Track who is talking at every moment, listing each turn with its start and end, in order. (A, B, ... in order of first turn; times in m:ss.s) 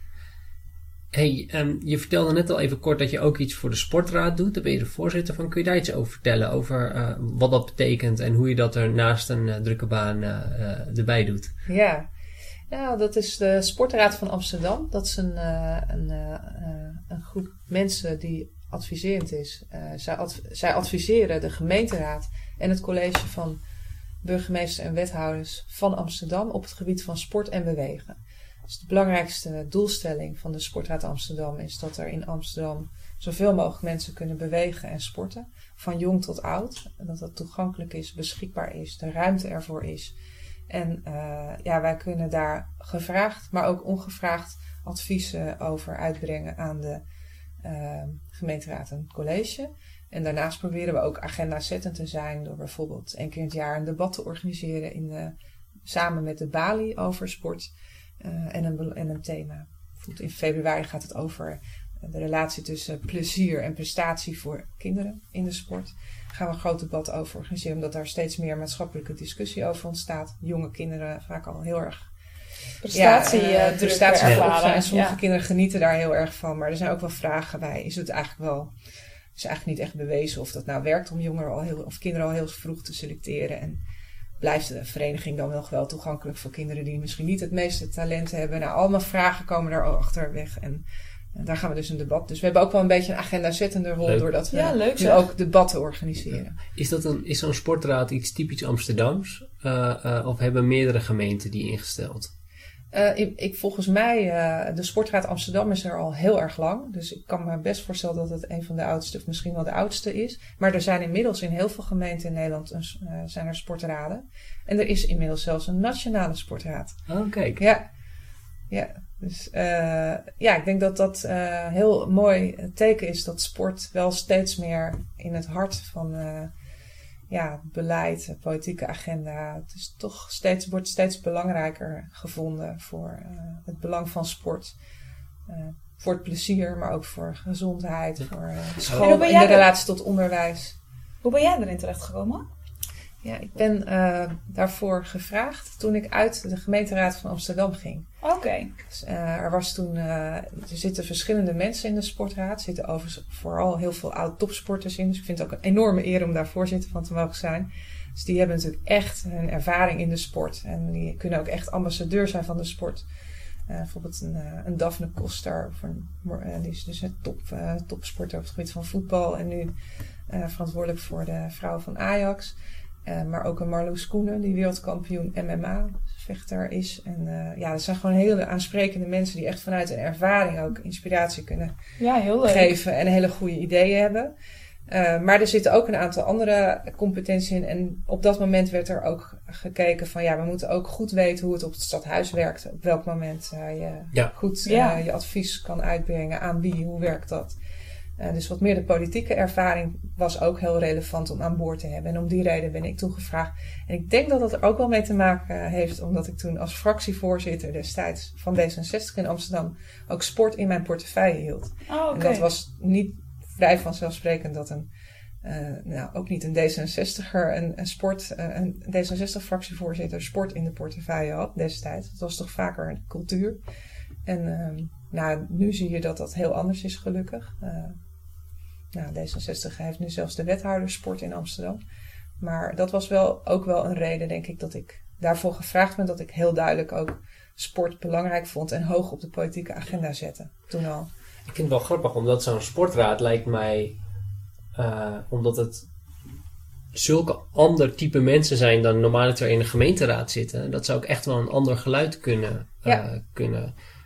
0:01.1-0:11.5 A
0:11.6-0:12.1 B
0:12.7-0:23.6 B
0:24.2-0:40.2 B
0:40.7-0:47.0 B
0:47.6-0:55.3 B
0:55.8-1:12.1 B
1:12.8-1:15.2 C
1:12.9-1:18.7 B
1:19.4-1:23.8 B
1:24.4-1:30.8 B
1:31.3-1:36.6 B
1:34.5-1:35.3 C
1:36.7-1:42.3 A
1:42.9-1:57.0 B
1:57.1-1:57.6 A
1:57.6-1:57.8 B
1:58.7-2:06.5 B
2:07.3-2:14.7 B
2:15.5-2:20.7 B
2:19.0-2:19.6 C
2:21.2-2:22.4 C
2:23.2-2:28.0 B
2:28.2-2:28.7 C
2:28.9-2:43.0 B
2:43.7-2:49.7 B
2:50.3-2:52.5 B
2:53.0-3:01.7 B
3:02.0-3:02.7 C
3:02.4-3:04.3 B
3:04.9-3:17.6 B
3:14.6-3:15.0 C
3:18.2-3:34.9 B
3:31.9-3:32.5 C
3:35.4-3:43.6 B
3:44.2-3:48.0 B
3:48.9-3:51.8 B
3:52.4-4:01.1 B
4:01.4-4:04.0 A
4:04.7-4:05.8 A
4:06.9-4:13.7 A